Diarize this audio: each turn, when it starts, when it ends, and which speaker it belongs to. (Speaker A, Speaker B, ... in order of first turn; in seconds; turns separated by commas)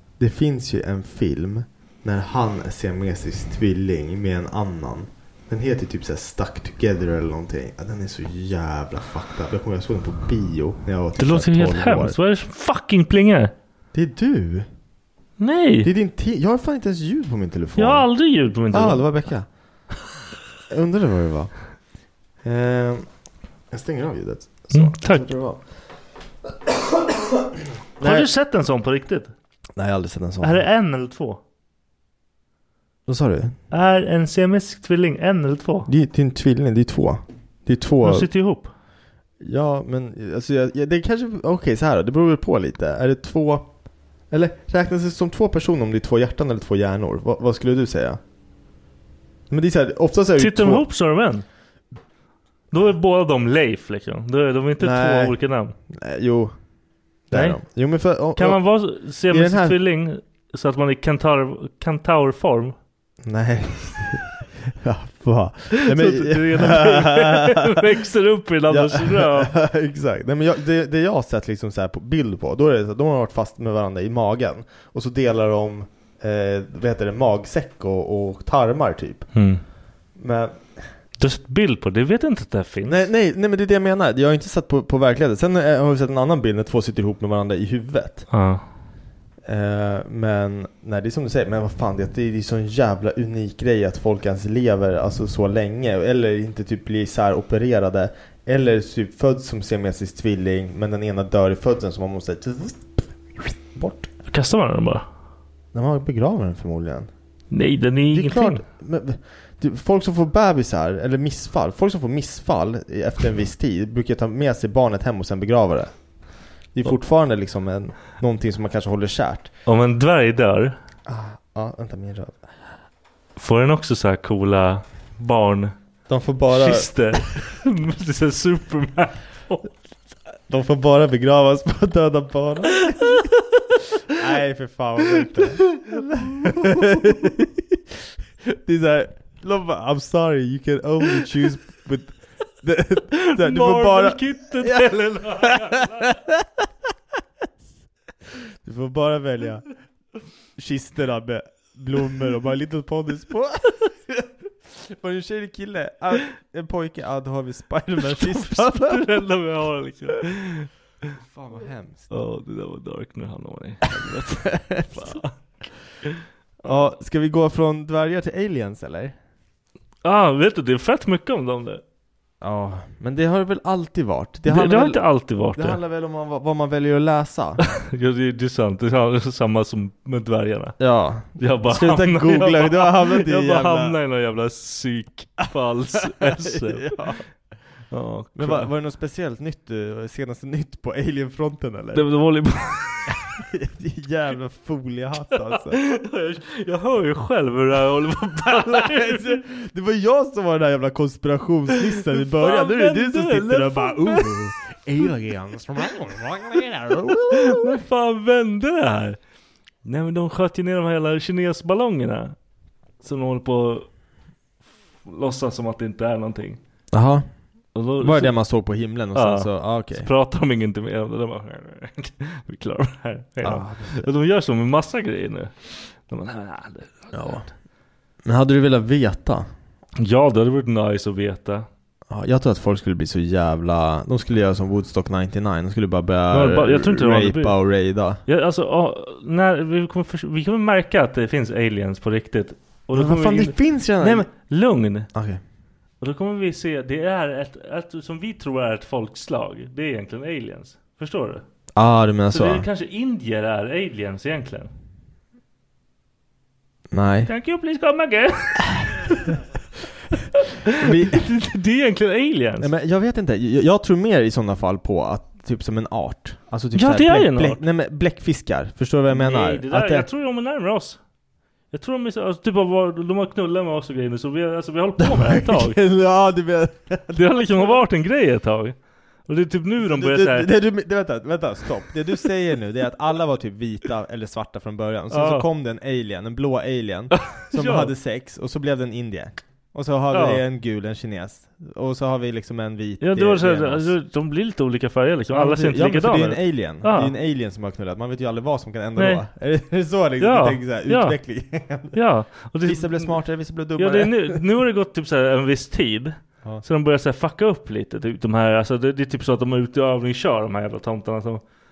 Speaker A: 0.2-12.2, Speaker B: 11.2-13.5, Speaker A: 13.9-14.7, Speaker B: 15.4-15.9, Speaker A: 15.8-18.1, Speaker B: 17.8-19.1, Speaker A: 18.7-19.5, Speaker A: 20.7-21.5, Speaker A: 22.4-23.1, Speaker A: 23.7-25.6, Speaker B: 24.7-25.2, Speaker A: 26.9-27.4, Speaker A: 28.0-28.3, Speaker B: 28.0-29.3, Speaker A: 29.8-30.6, Speaker B: 30.4-31.4, Speaker A: 33.1-33.6, Speaker B: 33.7-35.9, Speaker A: 35.9-38.3, Speaker B: 38.0-38.7, Speaker A: 39.4-43.7, Speaker A: 44.3-48.2, Speaker A: 49.5-50.9, Speaker B: 50.4-51.5, Speaker B: 52.7-55.8, Speaker A: 54.8-55.4, Speaker A: 55.9-56.6, Speaker A: 57.3-58.6, Speaker B: 57.3-57.6, Speaker B: 58.4-62.8, Speaker A: 59.3-59.8, Speaker A: 63.2-67.8, Speaker B: 65.8-69.5, Speaker A: 68.7-79.3, Speaker B: 79.3-79.6, Speaker A: 80.2-80.8, Speaker B: 81.2-83.1, Speaker A: 82.9-88.3, Speaker B: 88.3-88.6, Speaker A: 89.5-104.1, Speaker B: 104.3-105.0, Speaker A: 105.7-107.1, Speaker B: 107.5-108.6, Speaker A: 108.1-115.9, Speaker A: 116.8-119.5, Speaker B: 119.7-120.8, Speaker A: 121.1-122.5, Speaker B: 123.4-125.7, Speaker A: 126.1-126.9, Speaker B: 126.5-129.7, Speaker A: 130.5-133.2, Speaker B: 133.0-133.3, Speaker A: 134.1-137.8, Speaker B: 135.3-137.3, Speaker A: 138.4-146.5, Speaker B: 143.1-146.1, Speaker A: 148.4-149.6, Speaker A: 150.6-159.1, Speaker B: 158.0-160.7, Speaker A: 161.2-162.2, Speaker B: 162.1-165.5, Speaker A: 163.9-165.2, Speaker A: 166.6-169.2, Speaker B: 170.0-171.8, Speaker A: 172.4-175.0, Speaker B: 174.5-175.8, Speaker A: 175.5-177.8, Speaker B: 177.9-180.8, Speaker A: 180.8-184.0, Speaker B: 181.4-187.1, Speaker A: 186.2-187.2, Speaker B: 187.9-188.7, Speaker A: 188.3-192.1, Speaker B: 191.9-192.9, Speaker A: 193.4-195.8, Speaker B: 195.7-199.4, Speaker A: 198.5-207.8, Speaker B: 202.1-204.5, Speaker B: 206.9-209.2, Speaker B: 209.8-212.4, Speaker B: 213.0-213.9, Speaker B: 215.1-216.6, Speaker A: 216.9-217.3, Speaker B: 217.8-218.4, Speaker A: 218.0-220.1, Speaker B: 219.2-227.4, Speaker A: 223.4-224.1, Speaker A: 227.1-227.5, Speaker A: 228.2-229.5, Speaker B: 230.0-231.7, Speaker A: 232.1-238.2, Speaker B: 236.3-237.6, Speaker B: 238.3-245.1, Speaker A: 242.9-244.3, Speaker A: 245.1-245.4, Speaker B: 246.0-251.4, Speaker A: 251.8-252.7, Speaker B: 252.3-254.7, Speaker A: 256.9-257.3, Speaker B: 257.2-259.3, Speaker B: 260.7-262.7, Speaker A: 260.8-261.2, Speaker A: 262.6-270.1, Speaker B: 266.8-267.6, Speaker B: 269.1-271.0, Speaker B: 271.7-275.8, Speaker A: 275.0-277.8, Speaker B: 277.1-278.8, Speaker B: 279.3-280.5, Speaker A: 279.8-293.9, Speaker B: 285.1-285.5, Speaker B: 287.1-287.9, Speaker B: 290.1-290.4, Speaker B: 293.0-297.1, Speaker A: 295.3-302.0, Speaker B: 299.0-299.2, Speaker B: 300.2-301.2, Speaker B: 301.9-303.2, Speaker A: 302.6-304.4, Speaker B: 303.8-311.4